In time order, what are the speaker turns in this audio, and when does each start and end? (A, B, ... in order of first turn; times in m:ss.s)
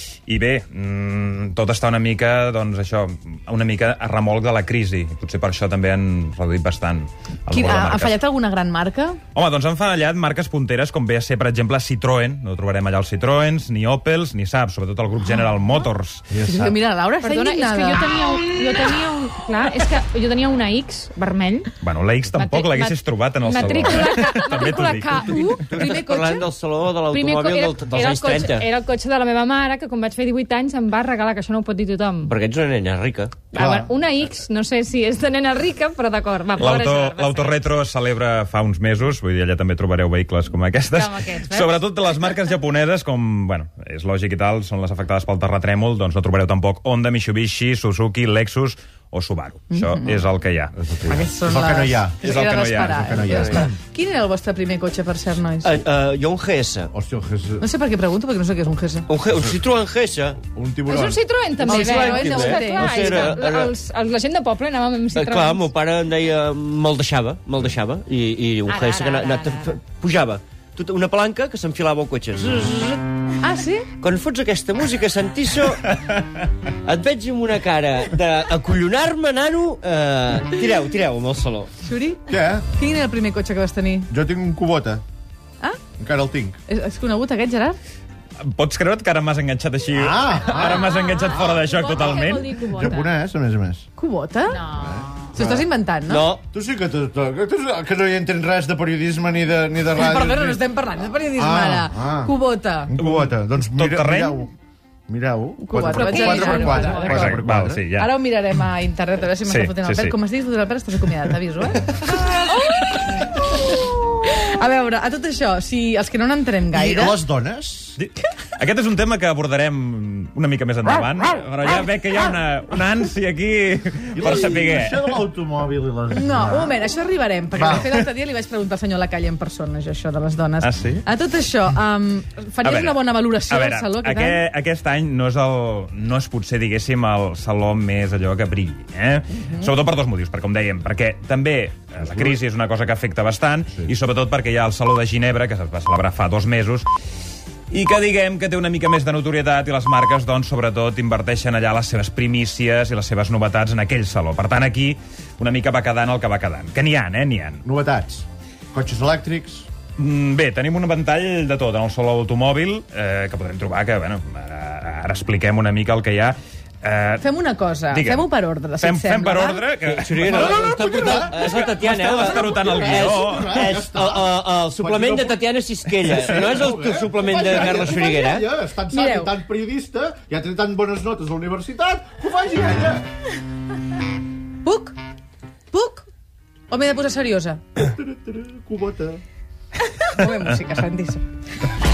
0:00.3-0:08.2 A
0:07.5-0:09.2 B
0:09.3-0:16.3 A
0:16.3-0:16.8 C
0:16.4-0:18.3 B
0:17.2-0:21.7 D
0:21.8-0:25.5 A
0:22.3-0:26.1 D
0:25.7-0:28.7 E
0:25.7-0:26.5 B
0:27.0-0:32.3 D
0:32.2-0:33.5 E
0:33.5-0:37.6 D
0:33.6-0:33.9 C
0:36.6-0:50.7 A
0:40.9-0:42.4 D
0:49.7-0:50.3 B
0:50.8-0:53.7 C
0:51.1-0:55.8 B
0:52.2-0:53.1 A
0:53.2-0:53.6 E
0:55.6-0:56.9 E
0:56.9-0:57.6 C
0:57.6-0:59.1 B
0:59.1-1:00.4 E
0:59.3-0:59.6 C
1:00.5-1:01.2 C
1:00.9-1:05.7 D
1:01.6-1:03.4 B
1:01.7-1:03.7 E
1:05.1-1:13.0 E
1:08.7-1:09.7 D
1:13.4-1:13.9 B
1:14.0-1:16.0 E
1:16.8-1:21.7 E
1:21.8-1:24.1 B
1:22.3-1:22.7 C
1:24.1-1:25.0 C
1:26.0-1:26.6 C
1:26.7-1:27.8 B
1:28.4-1:32.5 A
1:30.0-1:33.9 C
1:30.6-1:33.2 D
1:34.0-1:34.6 B
1:34.5-1:35.3 D
1:34.8-1:35.7 C
1:35.3-1:36.2 B
1:36.1-1:36.4 E
1:36.5-1:40.6 C
1:39.9-1:42.9 B
1:41.4-1:42.3 C
1:42.9-1:44.5 C
1:43.0-1:44.4 A
1:45.1-1:47.8 C
1:45.6-1:47.4 B
1:45.9-1:47.3 D
1:46.8-1:48.1 A
1:47.9-1:57.2 B
1:49.4-1:50.2 A
1:56.7-1:58.0 C
1:58.0-2:05.2 A
2:04.1-2:06.8 C
2:06.2-2:14.4 B
2:07.6-2:07.9 C
2:10.6-2:11.0 A
2:12.6-2:26.9 A
2:19.3-2:19.7 B
2:27.7-2:37.6 A
2:37.6-2:39.7 C
2:40.0-2:47.3 A
2:47.2-2:49.7 B
2:47.9-2:48.3 A
2:48.8-2:53.6 A
2:49.8-2:58.5 E
2:50.3-2:51.4 C
2:52.0-3:03.0 C
2:58.9-2:59.3 B
3:04.6-3:05.0 B
3:05.7-3:06.1 B
3:06.7-3:07.6 B
3:07.8-3:09.2 C
3:10.0-3:11.2 B